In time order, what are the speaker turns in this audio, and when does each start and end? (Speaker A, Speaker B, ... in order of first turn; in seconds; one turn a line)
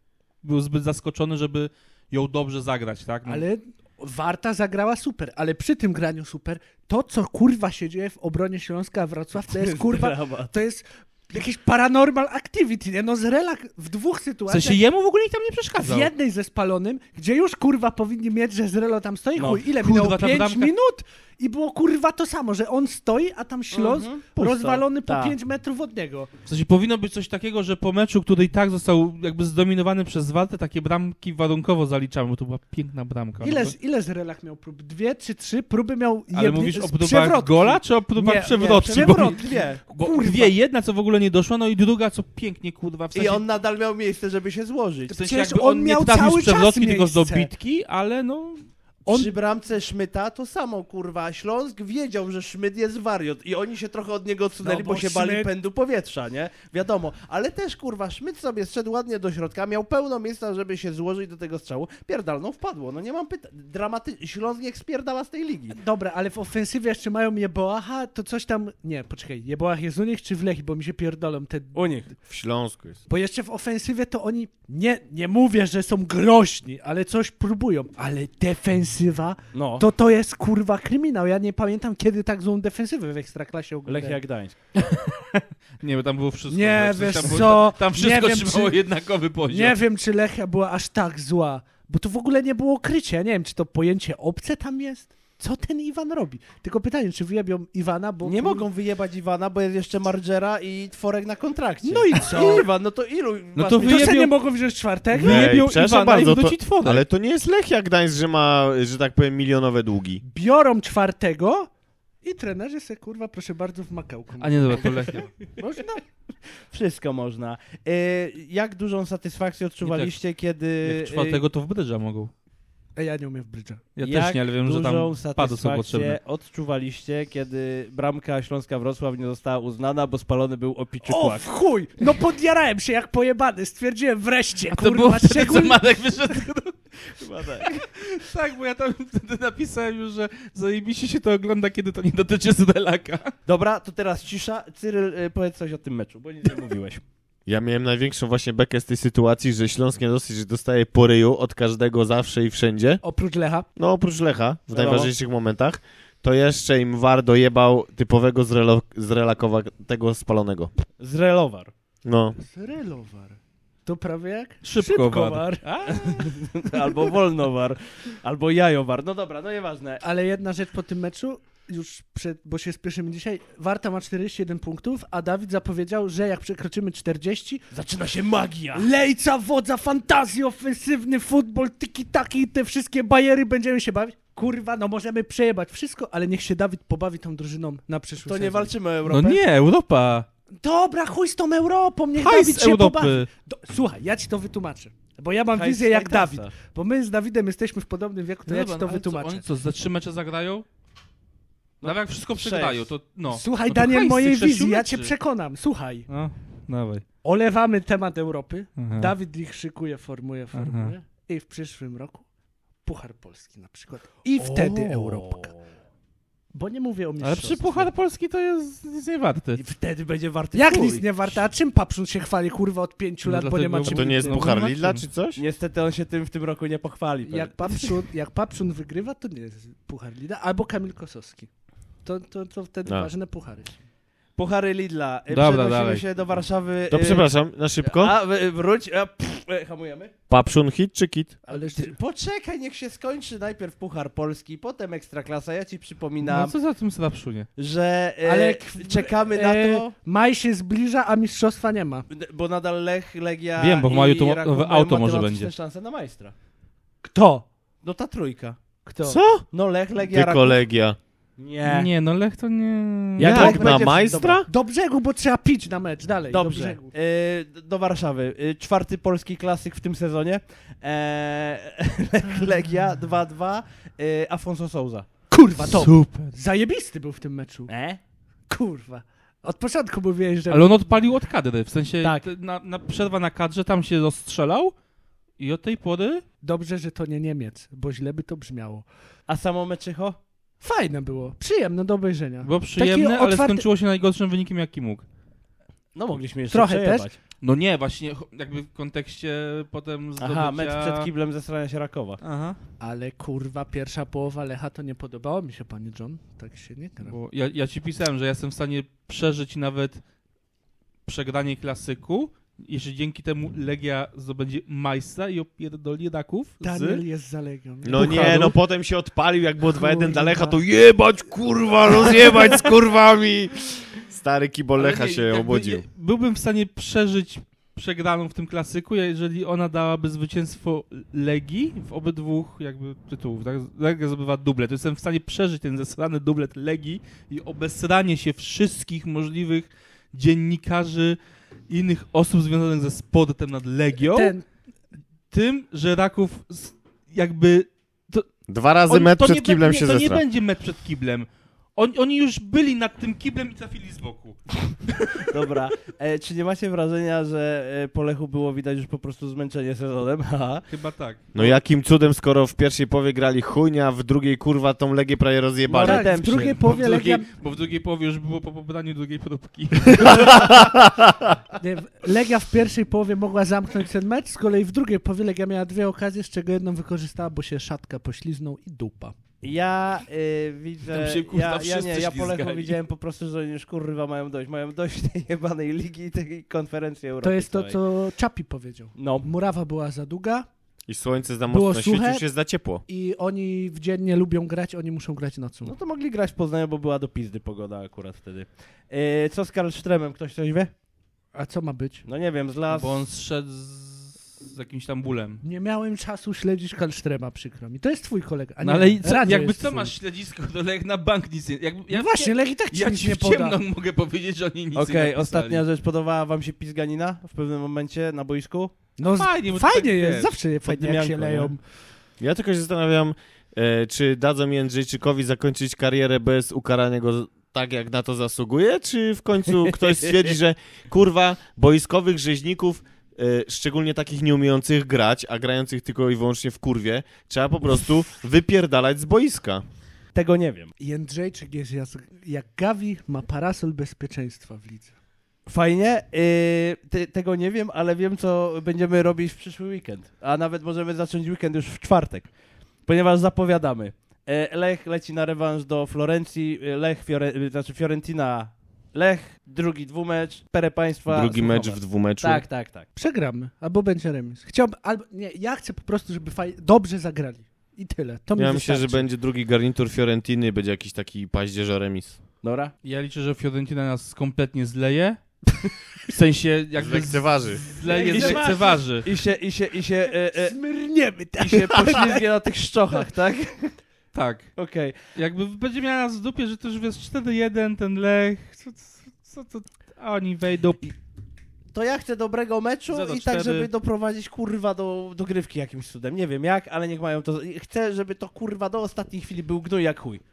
Speaker A: 0.4-3.5
Speaker B: 3.3-14.8
Speaker C: 9.5-10.5
Speaker A: 14.5-16.1
Speaker B: 15.8-26.3
Speaker C: 19.4-19.6
Speaker A: 19.7-20.7
Speaker C: 23.7-25.4
Speaker A: 26.5-33.7
Speaker B: 33.4-40.5
Speaker A: 36.3-43.4
Speaker C: 38.5-39.8
Speaker C: 43.1-45.1
Speaker B: 45.1-47.5
Speaker A: 45.1-48.7
Speaker B: 49.1-49.3
Speaker C: 49.1-65.8
Speaker B: 54.6-55.5
Speaker B: 65.7-72.0
Speaker C: 71.7-72.1
Speaker D: 72.3-73.0
Speaker B: 73.1-84.2
Speaker C: 79.5-79.8
Speaker C: 83.9-84.5
Speaker A: 85.8-89.8
Speaker B: 86.5-88.8
Speaker B: 89.5-98.6
Speaker C: 98.3-104.2
Speaker B: 101.8-102.7
Speaker A: 103.5-104.3
Speaker B: 103.8-105.5
Speaker A: 105.1-107.0
Speaker D: 105.2-110.2
Speaker B: 110.2-111.7
Speaker B: 112.2-115.9
Speaker A: 114.4-115.3
Speaker C: 115.6-116.0
Speaker C: 116.7-121.4
Speaker A: 119.8-120.2
Speaker A: 120.8-122.3
Speaker B: 123.0-123.8
Speaker A: 124.0-126.2
Speaker C: 124.0-131.6
Speaker B: 131.0-135.8
Speaker A: 134.7-143.3
Speaker C: 137.2-137.8
Speaker C: 143.5-147.0
Speaker D: 147.5-153.0
Speaker B: 153.0-153.7
Speaker D: 153.8-160.7
Speaker C: 154.7-155.1
Speaker C: 161.0-161.7
Speaker D: 162.1-162.4
Speaker B: 162.4-166.3
Speaker A: 164.6-165.4
Speaker C: 165.6-170.0
Speaker B: 170.0-177.6
Speaker C: 177.7-178.9
Speaker B: 178.8-188.7
Speaker C: 188.2-189.4
Speaker A: 189.1-190.3
Speaker B: 190.6-199.4
Speaker A: 192.2-193.3
Speaker C: 195.5-196.5
Speaker A: 198.5-200.6
Speaker C: 201.8-202.9
Speaker A: 201.8-205.1
Speaker B: 203.3-206.1
Speaker A: 206.1-207.0
Speaker B: 207.2-212.2
Speaker A: 208.8-209.1
Speaker A: 210.5-210.9
Speaker B: 212.8-215.5
Speaker C: 214.4-215.6
Speaker B: 216.5-217.9
Speaker A: 217.2-219.6
Speaker C: 219.6-221.1
Speaker B: 220.5-224.5
Speaker A: 223.2-225.1
Speaker D: 223.9-225.4
Speaker C: 225.4-228.0
Speaker B: 227.3-231.5
Speaker B: 232.0-233.8
Speaker C: 234.4-237.3
Speaker A: 235.3-236.1
Speaker D: 236.9-238.1
Speaker C: 237.8-240.1
Speaker D: 240.3-241.4
Speaker B: 241.5-242.0
Speaker C: 241.5-246.5
Speaker A: 246.2-247.5
Speaker C: 247.6-249.9
Speaker B: 248.2-252.1
Speaker C: 252.1-256.3
Speaker A: 253.6-255.5
Speaker B: 257.0-257.5
Speaker C: 257.8-258.6
Speaker B: 258.9-259.2
Speaker D: 259.0-261.0
Speaker C: 259.5-260.6
Speaker C: 261.4-261.9
Speaker A: 261.6-263.4
Speaker C: 263.2-264.4
Speaker D: 263.2-264.5
Speaker B: 263.3-266.9
Speaker C: 266.3-275.1
Speaker B: 275.3-277.7
Speaker A: 275.6-276.3
Speaker C: 277.7-278.0
Speaker B: 278.5-280.9
Speaker A: 280.5-284.8
Speaker A: 285.4-286.2
Speaker B: 286.4-288.9
Speaker C: 289.3-290.2
Speaker B: 290.6-293.7
Speaker A: 292.4-295.0
Speaker C: 295.9-297.2
Speaker B: 296.5-297.1
Speaker A: 297.4-301.1
Speaker C: 300.2-302.2
Speaker A: 302.2-302.6
Speaker B: 302.8-307.1
Speaker A: 307.0-310.0
Speaker A: 311.1-317.0
Speaker B: 316.6-318.6
Speaker D: 317.8-325.9
Speaker B: 319.8-320.6
Speaker A: 324.8-341.2
Speaker A: 341.7-344.4
Speaker B: 344.0-344.4
Speaker A: 345.3-348.3
Speaker D: 348.5-350.2
Speaker A: 348.9-355.2
Speaker C: 355.3-360.6
Speaker A: 360.7-361.5
Speaker D: 361.3-366.1
Speaker C: 365.7-366.6
Speaker B: 365.8-367.3
Speaker A: 366.3-370.5
Speaker D: 370.1-371.4
Speaker B: 371.6-379.1
Speaker C: 379.4-387.8
Speaker A: 380.9-382.8
Speaker B: 387.2-390.5
Speaker C: 388.9-389.3
Speaker D: 390.9-392.8
Speaker B: 391.5-392.3
Speaker B: 392.9-395.7
Speaker C: 395.6-400.7
Speaker B: 401.3-402.1
Speaker C: 402.1-403.0
Speaker A: 402.7-405.4
Speaker B: 405.4-409.9
Speaker A: 408.6-415.6
Speaker B: 411.9-413.6
Speaker C: 414.8-418.7
Speaker B: 419.0-421.6
Speaker A: 419.2-420.4
Speaker C: 420.6-421.6
Speaker D: 422.2-439.6
Speaker C: 429.7-430.3
Speaker C: 440.1-440.7
Speaker B: 440.8-444.9
Speaker C: 445.5-452.3
Speaker C: 452.9-462.9
Speaker D: 461.1-462.4
Speaker B: 462.9-469.1
Speaker D: 468.4-472.2
Speaker C: 472.4-472.7
Speaker A: 472.8-475.5
Speaker A: 476.1-479.1
Speaker D: 476.8-477.6
Speaker B: 477.9-478.8
Speaker C: 477.9-480.6
Speaker B: 480.4-482.3
Speaker C: 481.4-483.8
Speaker A: 484.1-484.5
Speaker C: 484.6-485.0
Speaker A: 485.1-490.9
Speaker C: 491.7-500.2
Speaker A: 492.9-493.7